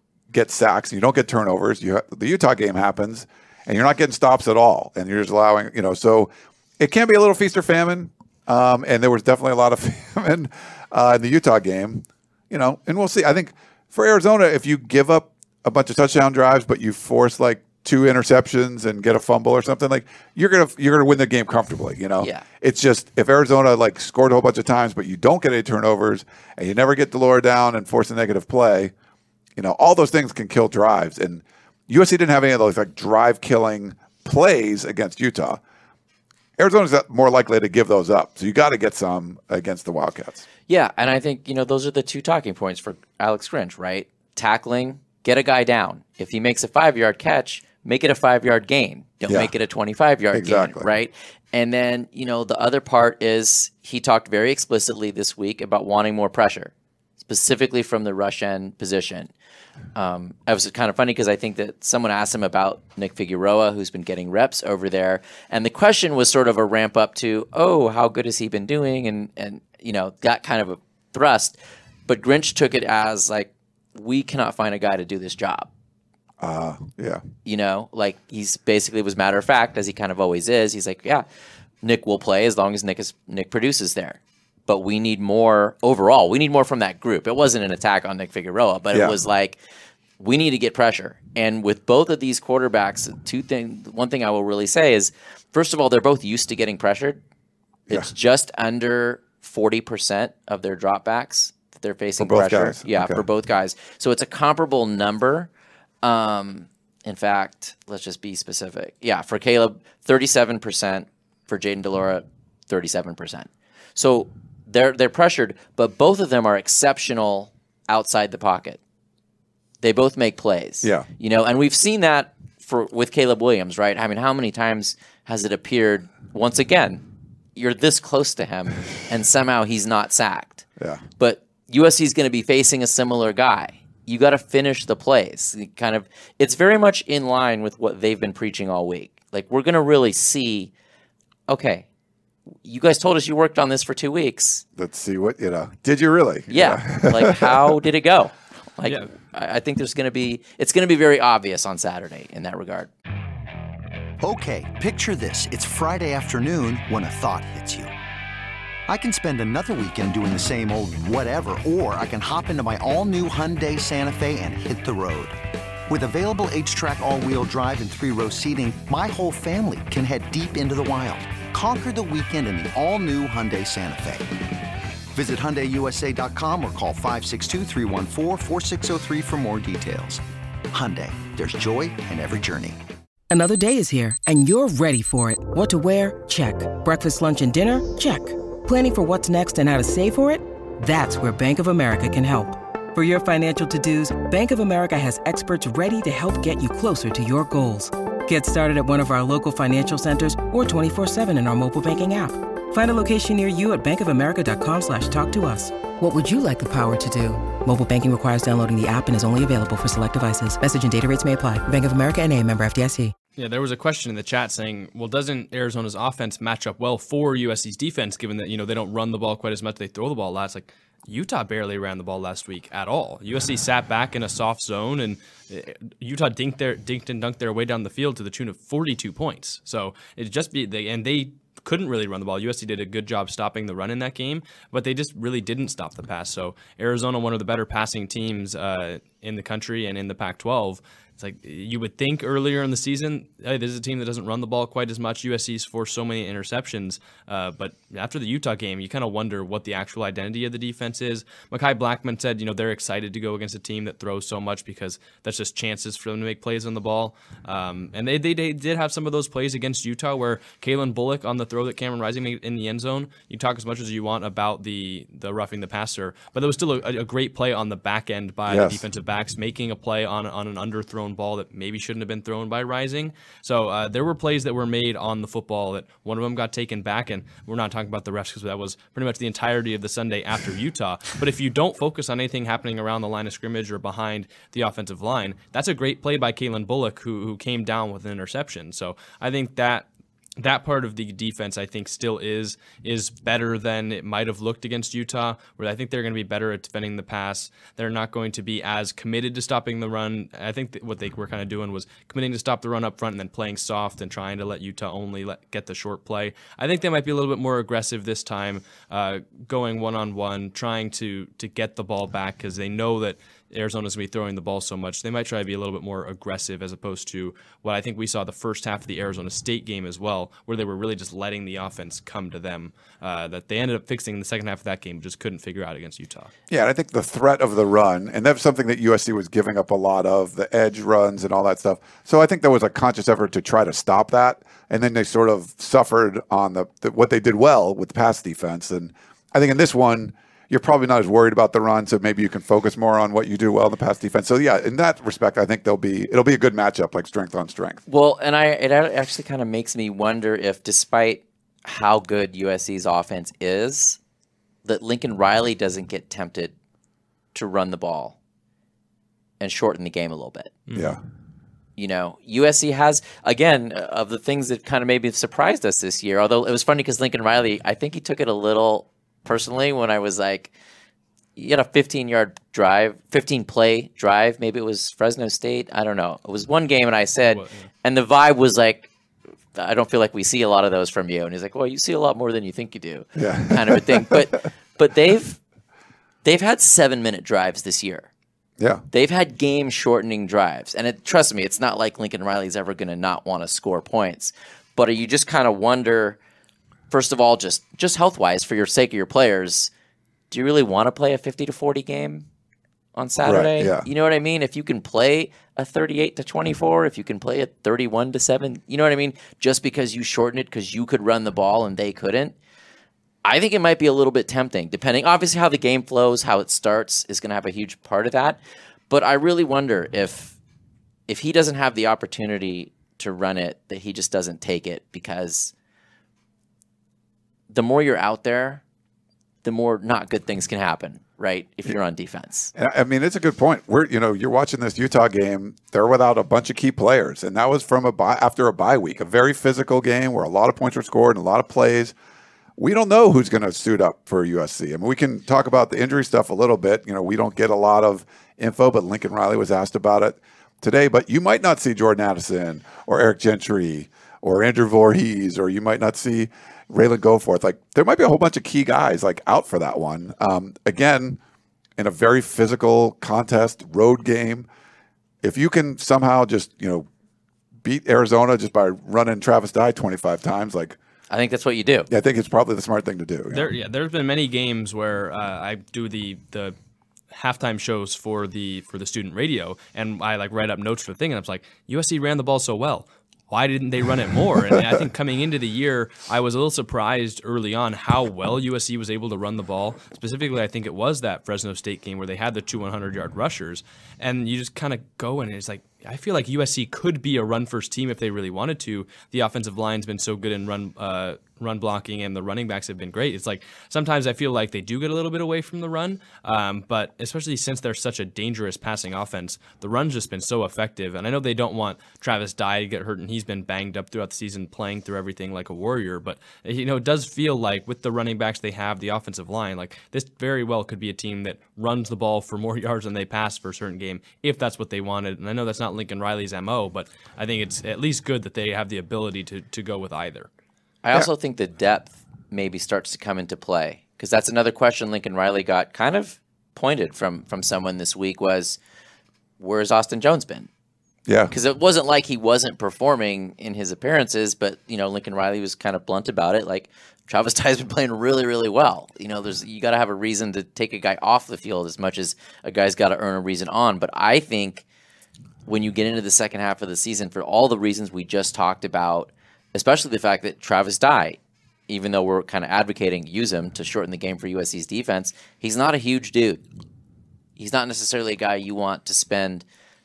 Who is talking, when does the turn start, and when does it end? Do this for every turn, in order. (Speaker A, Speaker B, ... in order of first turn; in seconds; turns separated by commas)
Speaker A: 0.3-28.9, Speaker B: 22.2-22.4, Speaker A: 29.6-35.6, Speaker A: 36.6-40.5, Speaker B: 40.7-59.3, Speaker A: 49.3-49.5, Speaker A: 50.3-50.9, Speaker B: 60.0-75.7, Speaker A: 76.4-77.2, Speaker B: 77.5-81.2, Speaker B: 81.8-89.6, Speaker A: 88.9-89.2, Speaker B: 90.2-97.2, Speaker B: 97.9-105.5, Speaker A: 102.2-103.2, Speaker B: 106.0-118.8, Speaker B: 119.8-127.0, Speaker A: 120.8-121.1, Speaker B: 127.6-130.7, Speaker A: 130.8-131.0, Speaker B: 131.2-140.7, Speaker B: 141.5-141.9, Speaker B: 142.6-144.6, Speaker A: 144.8-147.8, Speaker B: 146.5-152.9, Speaker C: 154.2-157.9, Speaker C: 158.9-165.4, Speaker C: 165.9-174.3, Speaker C: 175.1-182.8, Speaker D: 183.3-213.1, Speaker E: 213.4-289.9, Speaker A: 268.5-268.8, Speaker E: 290.4-326.3, Speaker A: 326.5-347.8, Speaker B: 347.9-354.0, Speaker B: 354.6-356.5, Speaker B: 357.3-358.2, Speaker B: 359.4-360.6, Speaker A: 360.7-361.0, Speaker B: 361.8-370.5, Speaker B: 371.4-378.9, Speaker E: 377.2-377.7, Speaker B: 379.6-385.4, Speaker A: 383.2-384.3, Speaker B: 386.2-388.1, Speaker A: 388.6-388.8, Speaker B: 388.9-396.2, Speaker B: 396.9-399.7, Speaker B: 400.3-402.3, Speaker B: 402.9-412.4, Speaker A: 403.2-403.9, Speaker B: 413.2-420.4, Speaker B: 421.1-425.5, Speaker B: 427.5-428.6, Speaker B: 429.4-432.5, Speaker A: 432.6-441.9, Speaker A: 442.6-461.2, Speaker A: 461.8-464.5, Speaker A: 465.2-466.9, Speaker A: 467.6-470.8, Speaker B: 471.1-471.9, Speaker A: 471.9-473.5, Speaker E: 473.3-476.5, Speaker E: 477.1-530.3, Speaker B: 530.8-538.6, Speaker B: 539.4-540.5, Speaker A: 541.1-541.3, Speaker B: 541.3-554.6, Speaker B: 555.5-566.4, Speaker B: 567.4-569.4